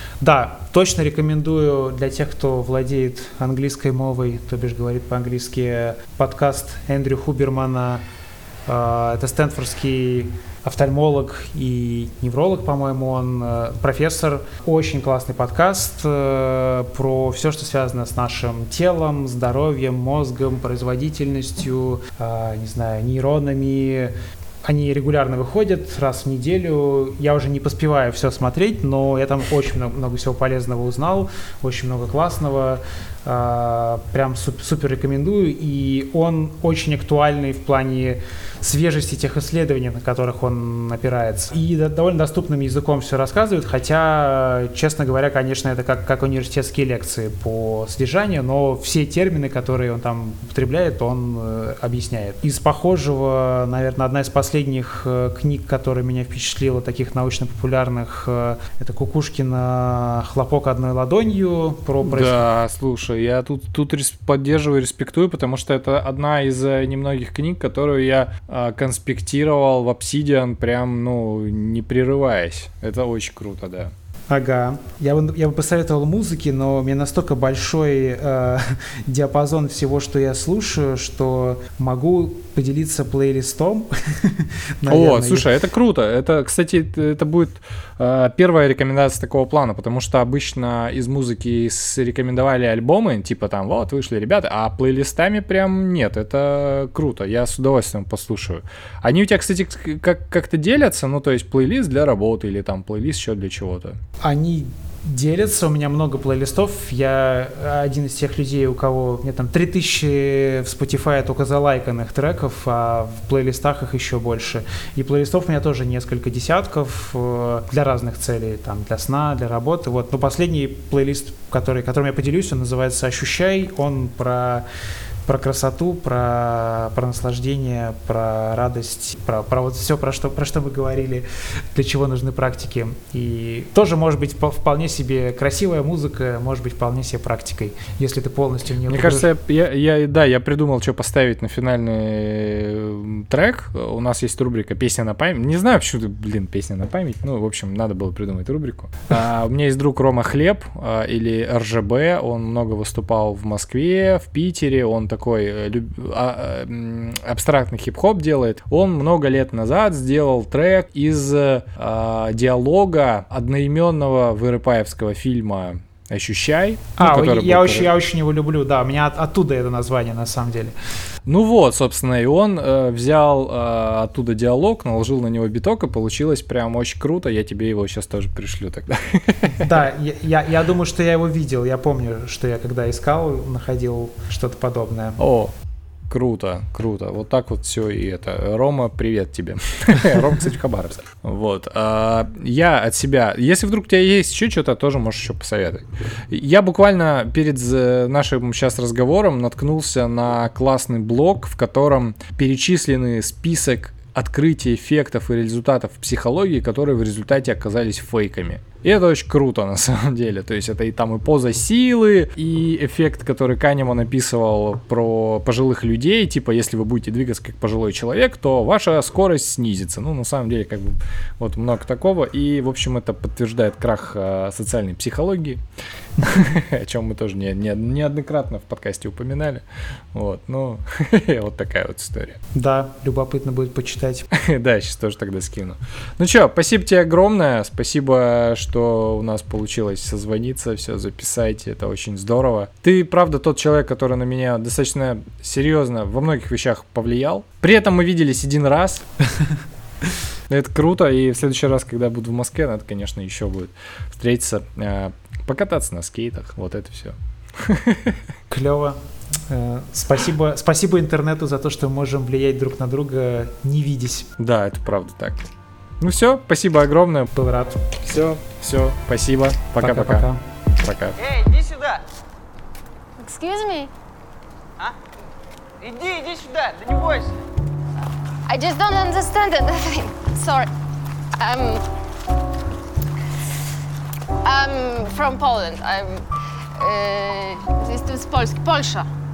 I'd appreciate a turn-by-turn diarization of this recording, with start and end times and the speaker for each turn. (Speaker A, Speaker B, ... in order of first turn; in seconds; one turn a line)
Speaker A: 0.2-8.0
Speaker A: 8.7-24.1
Speaker A: 24.6-62.4
Speaker B: 62.0-73.9
Speaker A: 74.3-85.5
Speaker B: 84.9-104.0
Speaker A: 104.2-124.6
Speaker A: 125.2-139.3
Speaker B: 138.8-167.9
Speaker A: 167.0-170.7
Speaker B: 171.2-179.8
Speaker A: 179.6-185.2
Speaker B: 185.2-185.5
Speaker B: 186.1-225.6
Speaker B: 226.2-229.6
Speaker B: 230.1-232.4
Speaker A: 232.5-234.3
Speaker B: 234.3-249.1
Speaker B: 250.5-258.2
Speaker A: 258.5-264.3
Speaker B: 264.4-265.4
Speaker B: 266.0-267.3
Speaker A: 267.3-267.8
Speaker B: 268.0-270.3
Speaker A: 269.8-270.4
Speaker B: 270.8-271.1
Speaker C: 271.2-272.0
Speaker D: 273.2-273.9
Speaker C: 275.8-277.3
Speaker D: 278.4-280.7
Speaker D: 281.4-281.8
Speaker D: 284.4-289.1